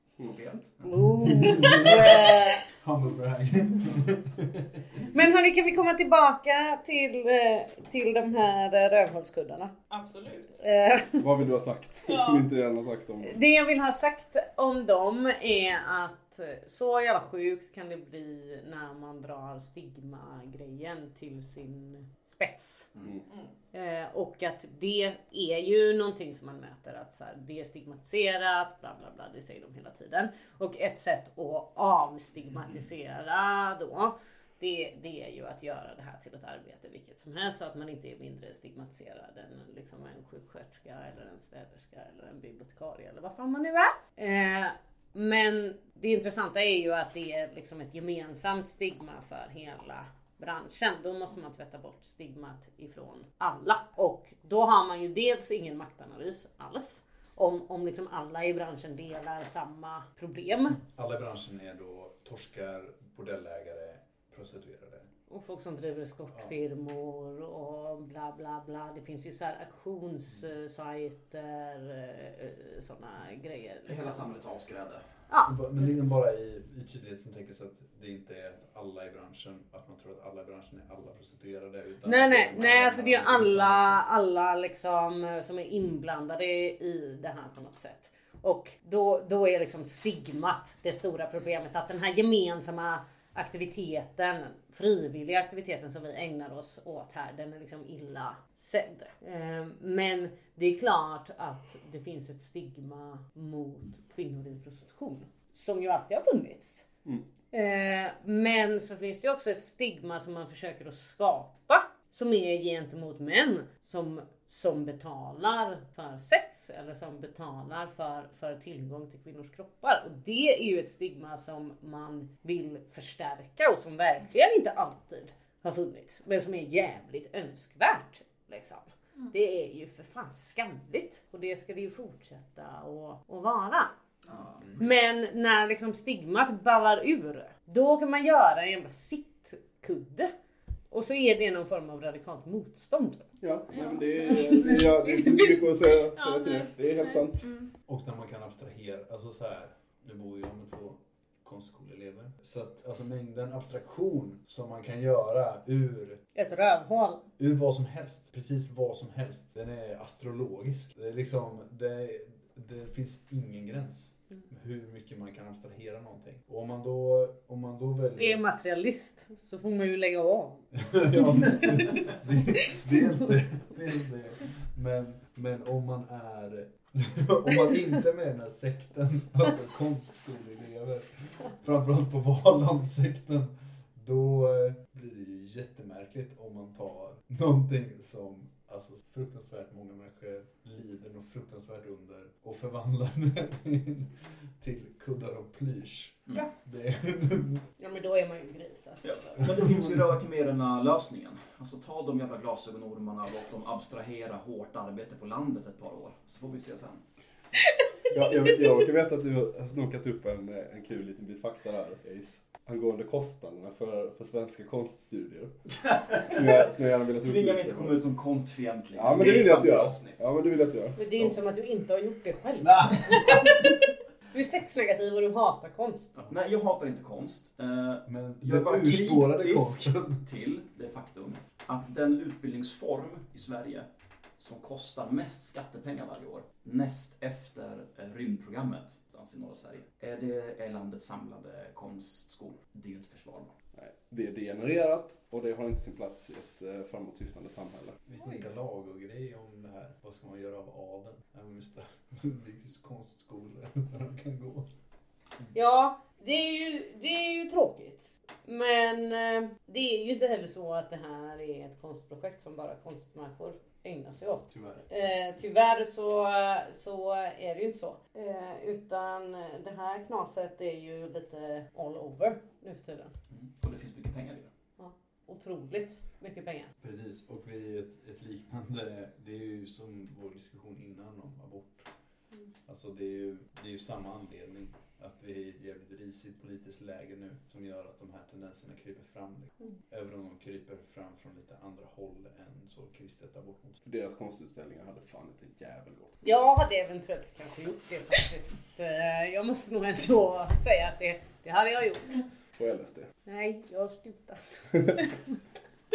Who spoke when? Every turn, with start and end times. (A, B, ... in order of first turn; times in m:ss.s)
0:00.2-0:01.9 A
0:00.8-0:02.6 B
0:01.4-0:05.0 C
0:05.1-0:09.8 B
0:09.9-0:10.6 D
0:10.6-0:11.2 B
0:11.2-0:13.4 E
0:12.1-0:12.4 D
0:13.2-0:22.9 B
0:22.9-0:23.2 A
0:23.7-1:00.8 B
1:00.8-1:05.1 C
1:05.3-1:14.3 B
1:13.9-1:15.2 A
1:15.3-1:16.1 B
1:15.4-1:24.0 C
1:22.0-1:46.9 B
1:47.5-2:13.9 B
2:14.3-2:14.7 A
2:14.8-2:20.3 B
2:20.9-2:23.3 B
2:23.4-2:27.5 E
2:23.7-2:27.7 D
2:27.9-2:36.2 C
2:36.4-2:37.2 B
2:37.4-2:48.4 C
2:48.2-2:51.7 B
2:50.7-3:17.7 C
3:17.8-3:19.5 B
3:19.0-3:27.1 A
3:19.4-3:20.2 C
3:28.1-3:35.6 E
3:35.8-3:40.3 A
3:36.1-3:38.0 E
3:38.9-3:41.0 E
3:41.0-3:43.7 B
3:42.6-3:43.6 C
3:44.3-3:46.1 B
3:46.2-4:03.5 A
3:48.1-3:50.2 C
4:03.7-4:08.0 E
4:08.1-4:14.7 C
4:15.5-4:33.2 B
4:24.5-4:24.9 C
4:33.3-4:34.5 A
4:34.8-4:36.7 B
4:36.8-4:41.9 C
4:42.7-4:53.8 C
4:53.8-4:56.2 E
4:56.2-5:02.2 B
5:02.6-5:03.1 E
5:03.3-5:05.4 B